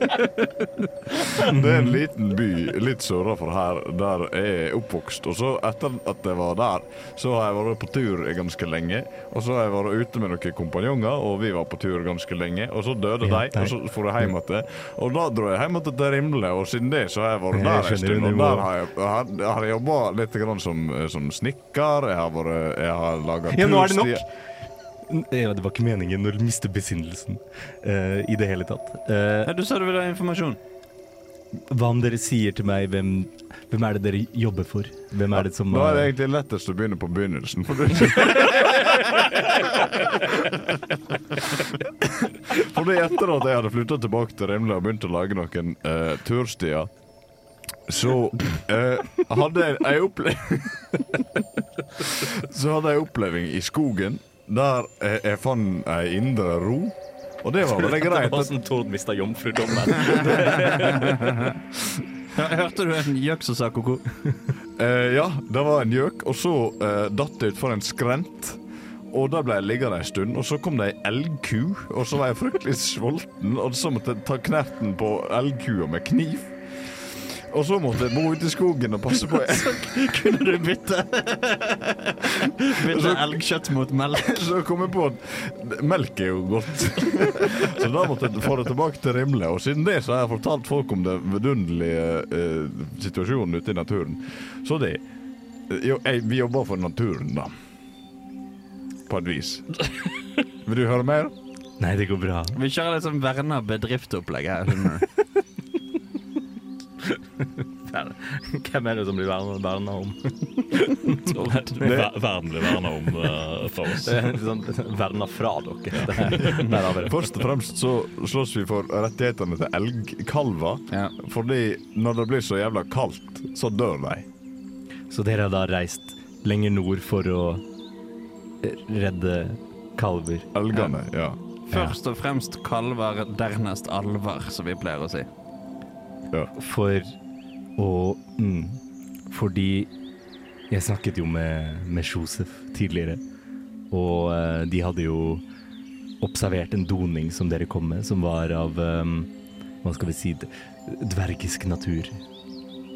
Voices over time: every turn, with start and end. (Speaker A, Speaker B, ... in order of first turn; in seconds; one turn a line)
Speaker A: 1.2-24.2
Speaker B: 1.4-1.9
Speaker B: 13.2-14.2
Speaker B: 17.5-18.7
Speaker B: 23.5-24.3
Speaker B: 25.1-29.5
Speaker C: 29.4-30.6
Speaker B: 31.7-36.1
Speaker A: 35.3-40.5
Speaker A: 42.5-46.9
Speaker A: 47.9-51.2
Speaker A: 52.0-58.5
Speaker B: 57.8-61.5
Speaker C: 60.4-61.4
Speaker C: 62.3-64.0
Speaker A: 64.8-80.0
Speaker C: 79.3-84.5
Speaker A: 82.8-83.4
Speaker A: 84.1-95.0
Speaker A: 95.7-97.5
Speaker A: 99.1-100.0
Speaker A: 100.6-101.3
Speaker B: 101.8-102.6
Speaker C: 102.5-105.1
Speaker B: 107.6-112.1
Speaker C: 111.2-111.7
Speaker D: 111.7-114.3
Speaker B: 113.9-117.2
Speaker D: 115.9-116.4
Speaker A: 116.3-124.2
Speaker B: 125.1-127.6
Speaker B: 128.6-130.5
Speaker A: 130.5-131.4
Speaker C: 131.7-135.3
Speaker B: 131.7-132.0
Speaker B: 136.5-137.2
Speaker B: 137.8-139.9
Speaker B: 140.7-143.2
Speaker B: 143.9-145.4
Speaker B: 146.2-149.3
Speaker B: 149.8-152.2